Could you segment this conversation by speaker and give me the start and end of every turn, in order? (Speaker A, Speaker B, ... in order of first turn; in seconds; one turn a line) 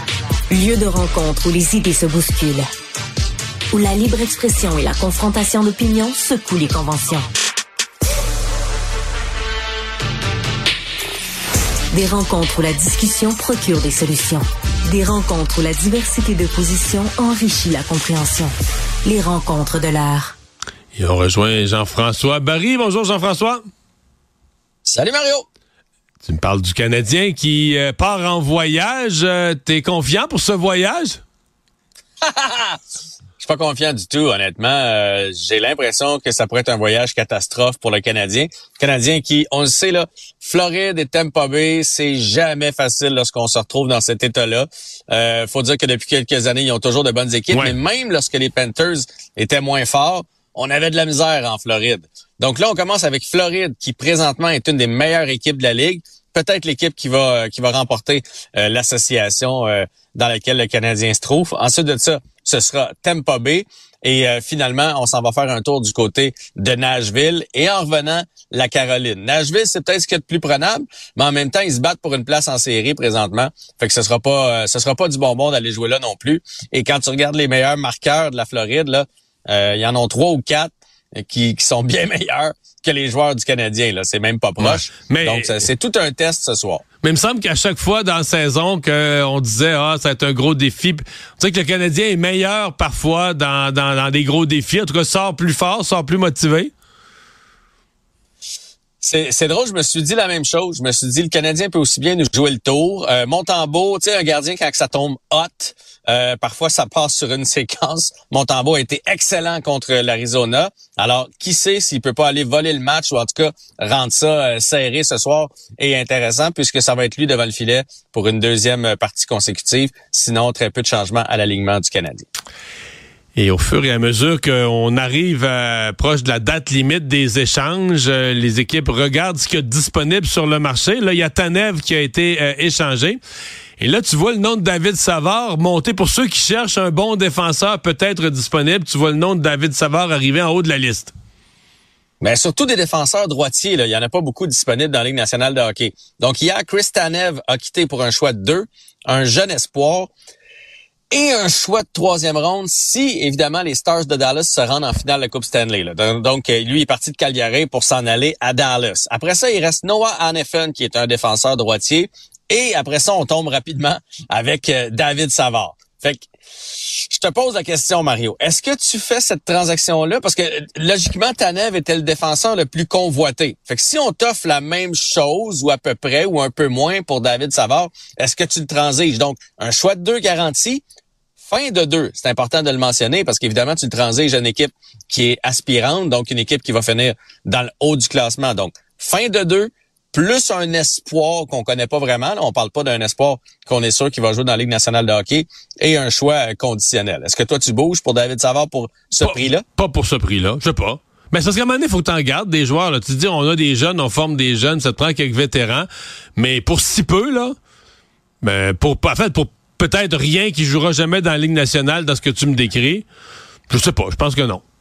Speaker A: 0.5-2.7
Speaker A: 3.7-7.3
Speaker A: 11.9-18.5
Speaker A: 19.0-20.4
Speaker B: 20.9-23.6
Speaker C: 24.9-25.5
Speaker B: 26.2-31.2
Speaker C: 32.2-32.8
Speaker C: 33.4-86.8
Speaker B: 84.6-85.6
Speaker B: 87.0-96.7
Speaker C: 99.0-122.3
Speaker B: 123.4-133.2
Speaker B: 133.8-141.1
Speaker C: 142.2-150.1
Speaker C: 151.1-180.8
Speaker C: 181.4-199.7
Speaker B: 199.2-207.5
Speaker B: 208.4-213.1
Speaker B: 213.7-214.6